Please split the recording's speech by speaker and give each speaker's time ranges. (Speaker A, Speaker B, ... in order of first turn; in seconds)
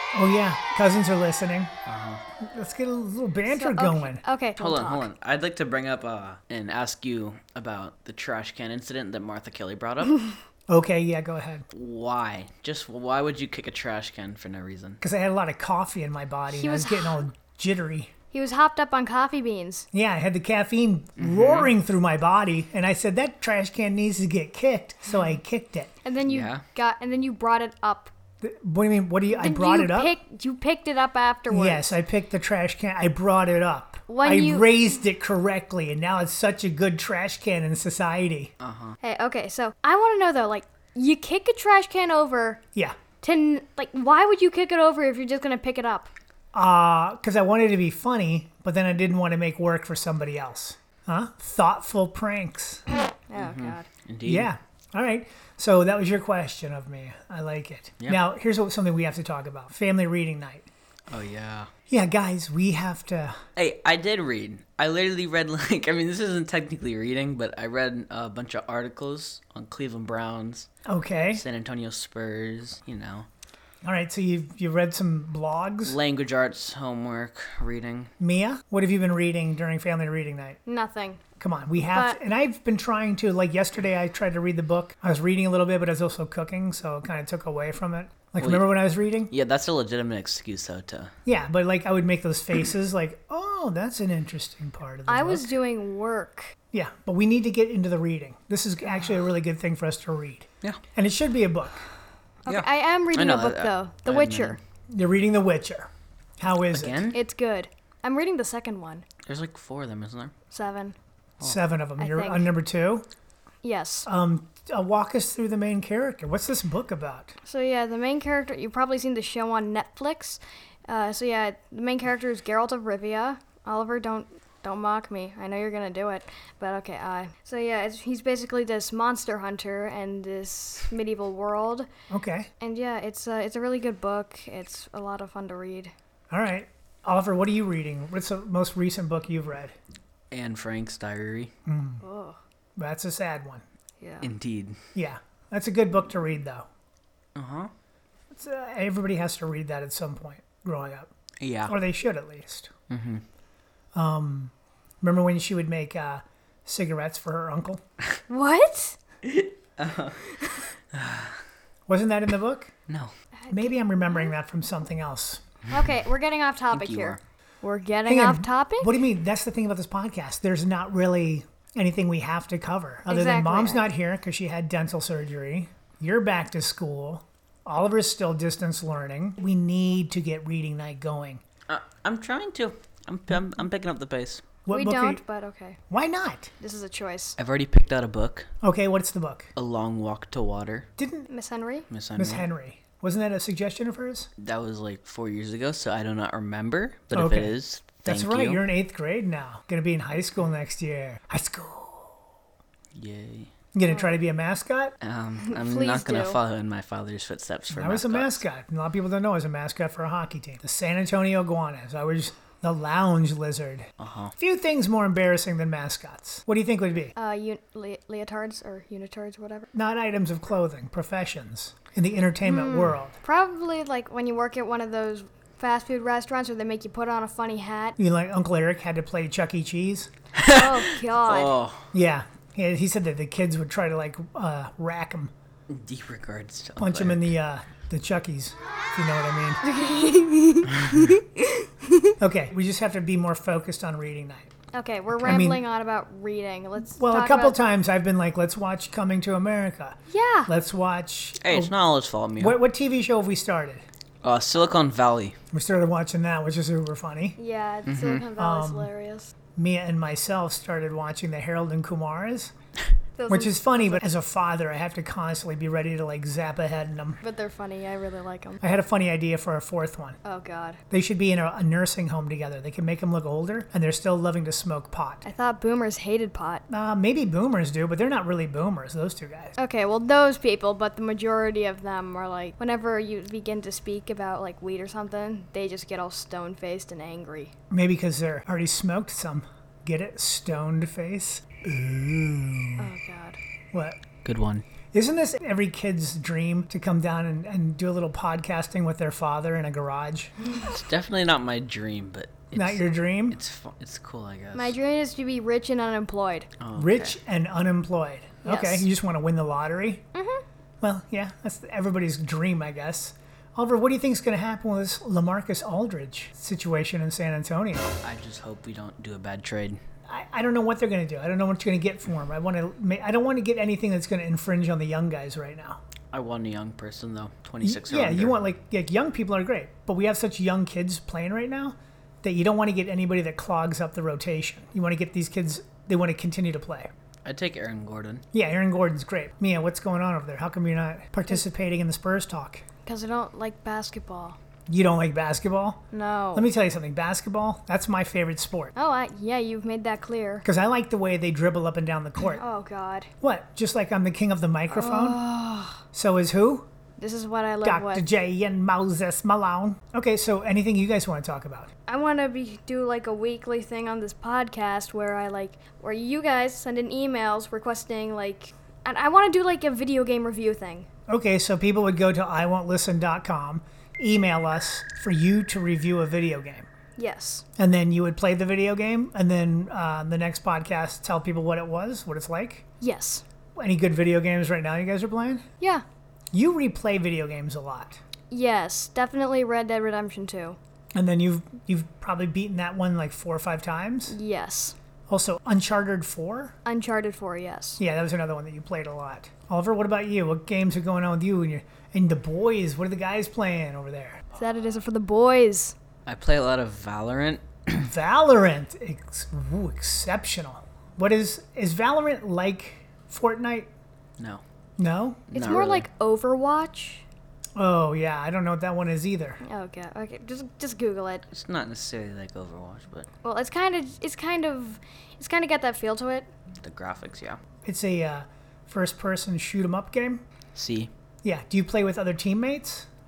Speaker A: 0.1-1.7, 2.4-4.2, 10.7-11.7, 15.0-18.1, 19.9-25.9, 28.4-30.1, 31.5-38.5, 46.5-52.8, 54.2-60.6, 61.9-63.4, 70.8-71.4, 73.8-76.0, 78.2-80.6, 81.4-89.3, 91.2-95.5, 96.7-101.8, 104.9-107.0, 111.4-113.0, 114.0-117.3, 132.1-132.5, 136.3-139.7, 141.7-142.0, 142.8-143.6, 144.9-146.7, 148.3-151.1, 151.7-152.7, 153.9-157.8, 161.9-162.7, 163.5-165.4, 168.1-181.4, 184.7-185.2, 185.9-186.5, 188.6-189.5, 191.0-191.3, 192.2-194.3, 197.1-202.2, 203.7-204.9, 207.7-217.1, 219.7-223.2, 228.0-230.1, 231.9-235.3, 236.8-239.6, 242.2-244.5, 245.2-245.6, 247.0-251.7, 252.4-253.8, 255.5-257.4, 258.4-258.9, 259.6-262.5, 263.3-267.2, 268.6-270.2, 270.9-275.2, 276.7-279.5, 287.7-292.9, 293.7-294.0, 294.9-300.3, 302.5-303.4, 306.8-310.0, 310.8-317.9, 320.1-325.8, 327.6-336.9, 338.3-342.6, 344.7-345.8, 346.3-348.7, 350.4-352.4, 353.2-355.2, 355.9-356.7, 357.6-361.7, 371.1-376.7, 377.6-382.6, 383.6-385.4, 386.3-388.0, 390.9-394.1, 395.1-396.5, 397.8-404.2, 407.8-413.7, 414.8-415.2, 417.6-419.4, 427.6-430.2, 431.2-432.9
Speaker B: 1.9-2.2, 4.6-10.2, 11.7-15.0, 21.2-21.7, 26.2-26.6, 38.6-39.0, 53.3-54.5, 61.1-61.7, 63.5-70.7, 71.3-73.3, 75.8-78.1, 88.4-91.1, 102.5-104.6, 106.7-107.2, 109.2-110.3, 140.3-141.5, 144.2-144.8, 147.3-147.7, 151.4-151.7, 152.9-153.2, 159.3-160.2, 160.9-161.4, 166.7-167.2, 181.7-184.4, 187.4-188.5, 189.6-190.9, 191.9-192.4, 194.4-198.6, 202.9-203.5, 205.0-208.4, 214.0-214.3, 230.4-231.8, 235.7-237.3, 251.4-252.6, 254.2-255.3, 257.9-258.3, 294.2-294.6, 300.6-304.8, 306.6-307.1, 318.0-319.8, 326.1-328.4, 337.2-338.2, 406.1-407.9, 415.3-415.9, 421.3-423.1, 426.6-427.4, 430.5-430.9
Speaker C: 3.5-5.1, 16.5-17.2, 18.3-19.9, 26.0-28.1, 29.3-31.9, 34.1-34.7, 39.0-42.6, 43.2-46.1, 53.3-53.9, 80.7-81.2, 81.8-82.2, 95.1-96.5, 102.5-104.6, 107.1-109.0, 110.5-111.0, 112.0-112.5, 113.6-114.1, 117.4-131.9, 132.6-135.9, 142.0-142.4, 144.0-144.3, 158.3-159.0, 163.4-164.3, 165.7-168.9, 173.1-173.9, 184.7-185.8, 186.6-187.3, 191.3-191.9, 203.8-204.2, 205.4-206.4, 217.2-219.7, 222.4-228.0, 230.5-231.6, 239.6-242.1, 244.7-247.6, 250.1-250.5, 257.4-259.3, 263.1-264.0, 267.2-268.6, 270.2-270.8, 275.2-276.6, 279.6-287.5, 292.8-293.4, 304.5-306.5, 308.4-308.9, 310.1-310.4, 342.8-344.4, 345.9-346.5, 348.8-350.4, 352.3-353.1, 354.7-355.8, 357.0-358.0, 361.9-370.9, 377.0-377.4, 382.8-383.2, 388.3-390.6, 394.1-394.8, 396.6-397.8, 404.3-405.7, 415.3-417.0, 419.4-421.2, 423.2-426.3